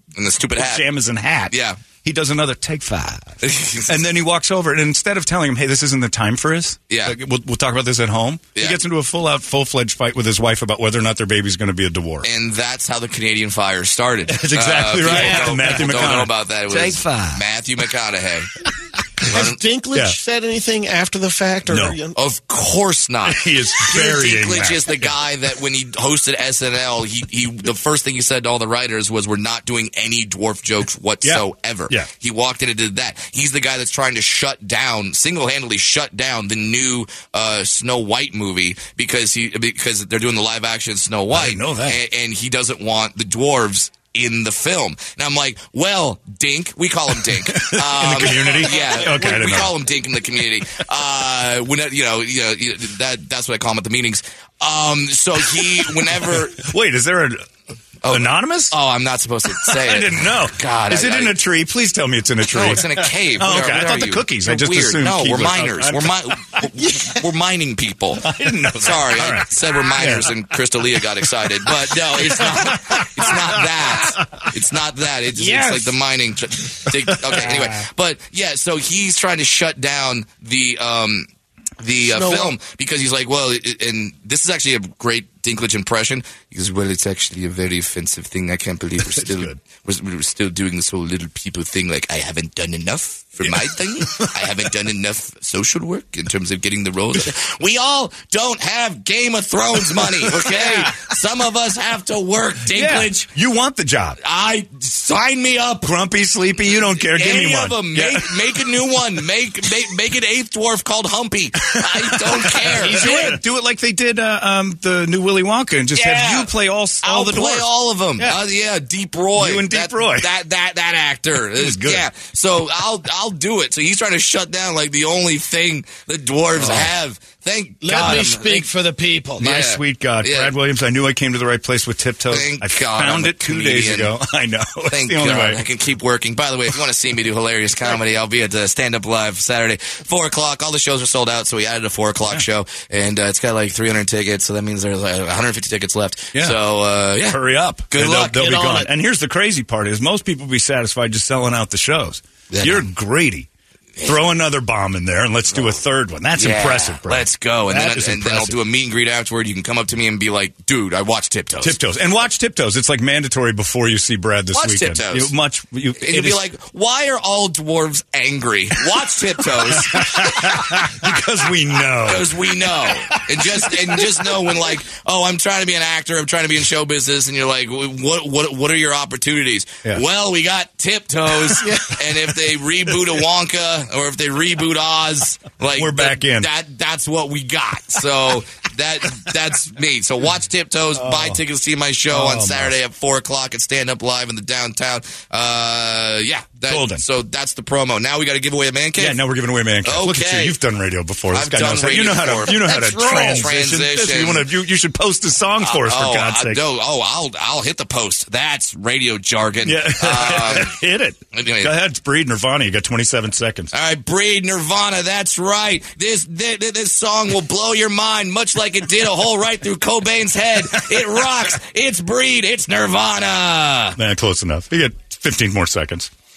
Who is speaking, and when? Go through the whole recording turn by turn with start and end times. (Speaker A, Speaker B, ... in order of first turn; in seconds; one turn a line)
Speaker A: 0.2-0.8
Speaker B: 0.6-12.3
Speaker A: 1.5-1.8
Speaker A: 3.4-4.0
Speaker A: 6.9-7.2
Speaker A: 8.6-8.8
Speaker A: 12.2-18.5
Speaker B: 14.3-17.4
Speaker C: 15.0-15.8
Speaker A: 19.3-19.6
Speaker C: 19.3-22.2
Speaker B: 21.7-22.0
Speaker A: 22.1-56.7
Speaker B: 23.2-25.1
Speaker B: 31.2-32.1
Speaker B: 41.3-42.0
Speaker B: 47.2-49.8
Speaker B: 55.6-57.4
Speaker A: 58.0-61.4
Speaker B: 58.1-58.8
Speaker B: 59.5-66.2
Speaker A: 62.5-81.3
Speaker B: 68.2-70.3
Speaker B: 72.0-74.5
Speaker C: 75.3-76.0
Speaker B: 77.1-77.6
Speaker A: 81.8-103.3
Speaker C: 82.0-82.6
Speaker B: 89.0-89.6
Speaker B: 94.0-94.3
Speaker B: 100.0-101.0
Speaker B: 102.7-104.2
Speaker A: 104.2-105.9
Speaker B: 105.8-108.4
Speaker A: 107.0-113.4
Speaker B: 111.7-118.4
Speaker A: 116.0-128.7
Speaker B: 119.4-120.3
Speaker B: 121.5-122.1
Speaker B: 126.5-126.9
Speaker C: 127.8-129.5
Speaker A: 129.4-130.5
Speaker B: 129.4-135.6
Speaker A: 132.3-134.2
Speaker A: 134.9-148.8
Speaker B: 147.2-153.5
Speaker C: 148.6-148.9
Speaker A: 152.5-152.9
Speaker B: 154.0-158.6
Speaker A: 155.5-155.8
Speaker A: 156.3-161.8
Speaker B: 161.6-166.4
Speaker A: 164.5-165.4
Speaker A: 166.0-170.1
Speaker B: 169.6-174.3
Speaker A: 172.0-199.2
Speaker C: 181.6-182.0
Speaker B: 185.8-186.5
Speaker B: 190.9-191.4
Speaker B: 192.1-192.7
Speaker B: 196.7-197.0
Speaker B: 199.0-206.6
Speaker A: 199.8-200.6
Speaker A: 201.3-204.5
Speaker C: 202.5-203.5
Speaker A: 205.6-210.7
Speaker B: 209.6-213.7
Speaker A: 211.3-211.7
Speaker A: 213.7-224.0
Speaker B: 224.0-226.1